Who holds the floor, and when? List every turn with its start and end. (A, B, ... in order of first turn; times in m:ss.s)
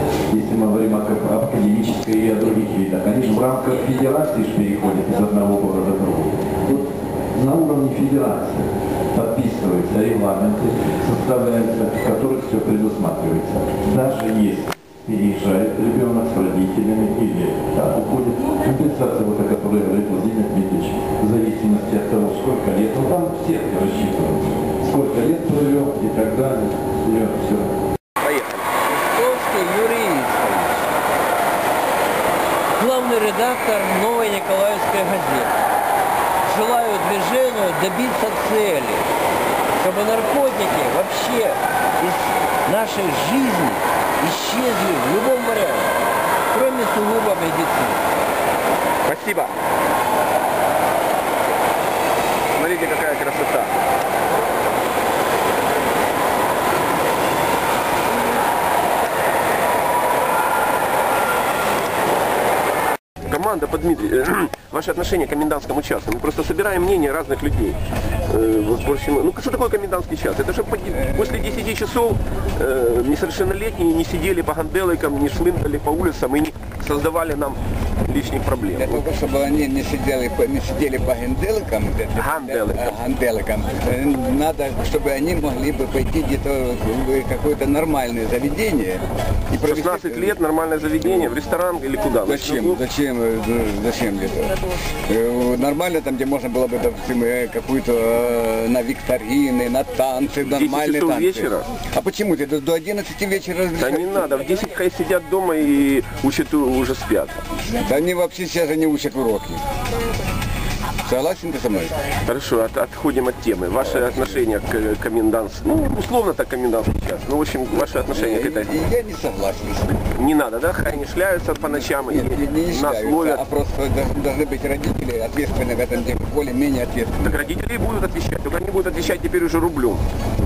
0:00.3-0:27.7 A
0:28.2-0:28.7 B
0:29.1-0:30.9 C
0:32.8-0:35.6 C
0:36.5-0:39.0 C
0:39.8-0:46.0 C
0:46.5-0:48.0 C
0:49.0-0:49.6 B
0:52.6-0:53.7 B
1:03.3-1:19.0 B
1:11.0-1:11.6 D
1:18.8-1:30.4 D
1:22.2-1:23.0 B
1:29.6-1:32.8 B
1:31.0-1:31.3 D
1:32.2-1:44.2 D
1:40.5-1:41.7 B
1:43.8-1:47.4 B
1:47.7-1:49.6 D
1:51.0-1:52.0 D
1:52.2-1:58.8 B
1:53.8-1:54.4 D
1:58.0-1:59.9 D
2:00.0-2:03.4 B
2:01.6-2:07.5 D
2:07.2-2:10.0 B